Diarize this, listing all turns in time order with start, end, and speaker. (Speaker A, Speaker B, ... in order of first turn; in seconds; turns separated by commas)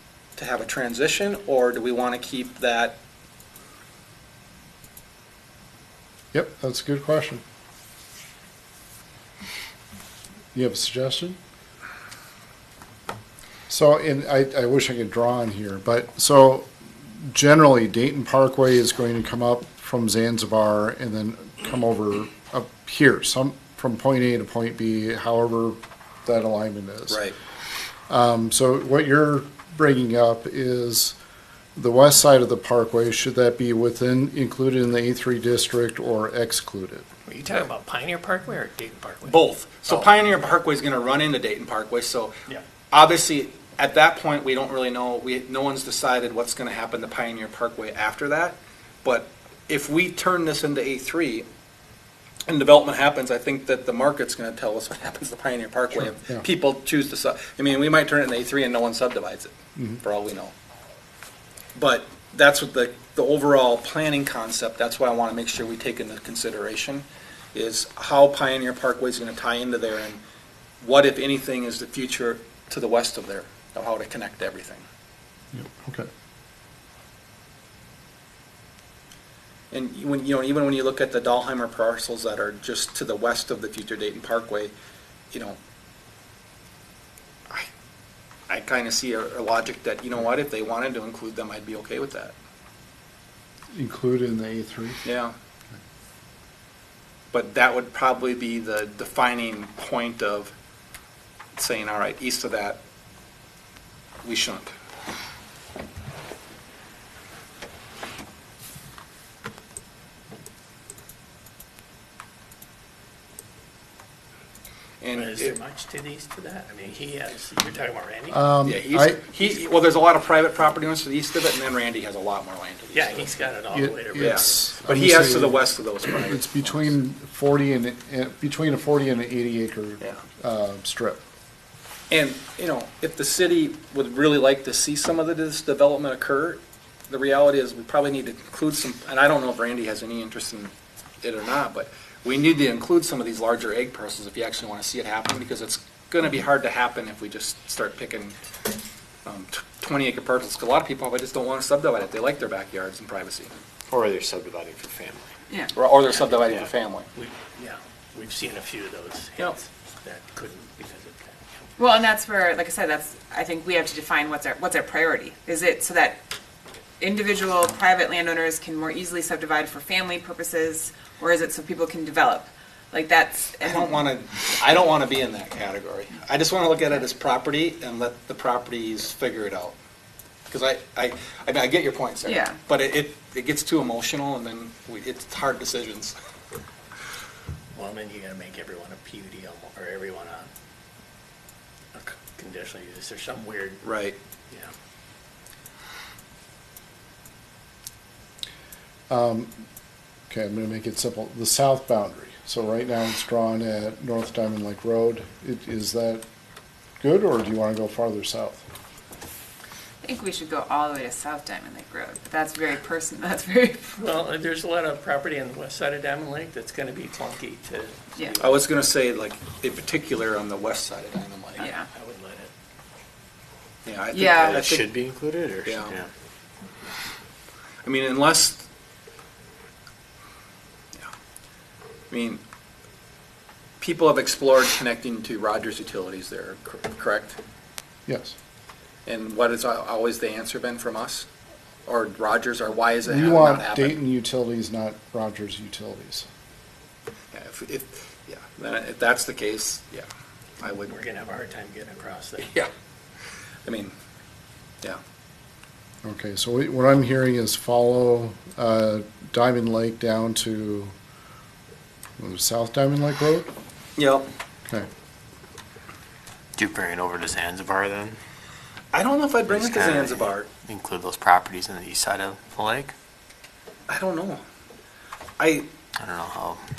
Speaker A: 0.4-3.0, Speaker B: 6.3-7.4, Speaker B: 10.5-11.4, Speaker B: 13.7-27.2, Speaker A: 27.1-27.4, Speaker B: 28.1-31.2, Speaker B: 31.8-37.1, Speaker C: 37.3-40.1, Speaker A: 39.3-42.4, Speaker A: 42.9-51.5, Speaker A: 52.5-60.5, Speaker B: 56.0-56.5, Speaker A: 61.8-70.2, Speaker A: 70.8-74.9, Speaker B: 75.5-76.1, Speaker A: 79.7-84.7, Speaker A: 85.3-85.6, Speaker A: 88.5-92.3, Speaker B: 93.7-95.1, Speaker A: 95.0-95.3, Speaker A: 97.3-100.5, Speaker A: 101.6-102.8, Speaker A: 104.2-104.7, Speaker A: 115.0-115.6, Speaker C: 115.1-118.4, Speaker B: 118.3-119.2, Speaker A: 118.6-123.3, Speaker C: 122.9-124.8, Speaker B: 123.7-131.2, Speaker A: 124.2-126.9, Speaker A: 132.1-148.4, Speaker A: 149.2-153.5, Speaker D: 153.9-155.3, Speaker E: 155.5-155.8, Speaker A: 155.8-157.1, Speaker C: 157.2-161.7, Speaker E: 161.8-166.2, Speaker E: 167.0-173.9, Speaker A: 173.6-179.8, Speaker A: 180.5-186.2, Speaker E: 182.2-182.6, Speaker C: 187.8-190.5, Speaker C: 191.9-193.8, Speaker A: 193.8-194.2, Speaker B: 199.1-199.6, Speaker B: 200.3-206.2, Speaker B: 207.0-208.6, Speaker E: 210.0-214.0, Speaker C: 214.0-218.6, Speaker A: 218.4-221.7, Speaker C: 221.6-222.5, Speaker E: 221.6-221.9, Speaker A: 223.8-224.9, Speaker E: 224.1-224.6, Speaker D: 224.4-226.1, Speaker A: 225.7-226.0, Speaker A: 227.8-228.7, Speaker A: 232.1-232.4, Speaker A: 233.8-237.4, Speaker B: 238.1-238.3, Speaker A: 239.1-241.3, Speaker A: 241.9-244.0, Speaker B: 243.1-246.3, Speaker A: 247.3-250.1, Speaker A: 250.6-250.9, Speaker C: 250.8-252.5, Speaker A: 252.4-252.7, Speaker A: 253.7-253.9, Speaker B: 256.0-260.9, Speaker B: 262.2-263.5, Speaker A: 264.0-264.3, Speaker D: 266.6-268.2, Speaker A: 268.9-270.5, Speaker D: 269.5-272.9, Speaker A: 273.9-274.4, Speaker A: 275.4-275.7, Speaker D: 276.0-276.6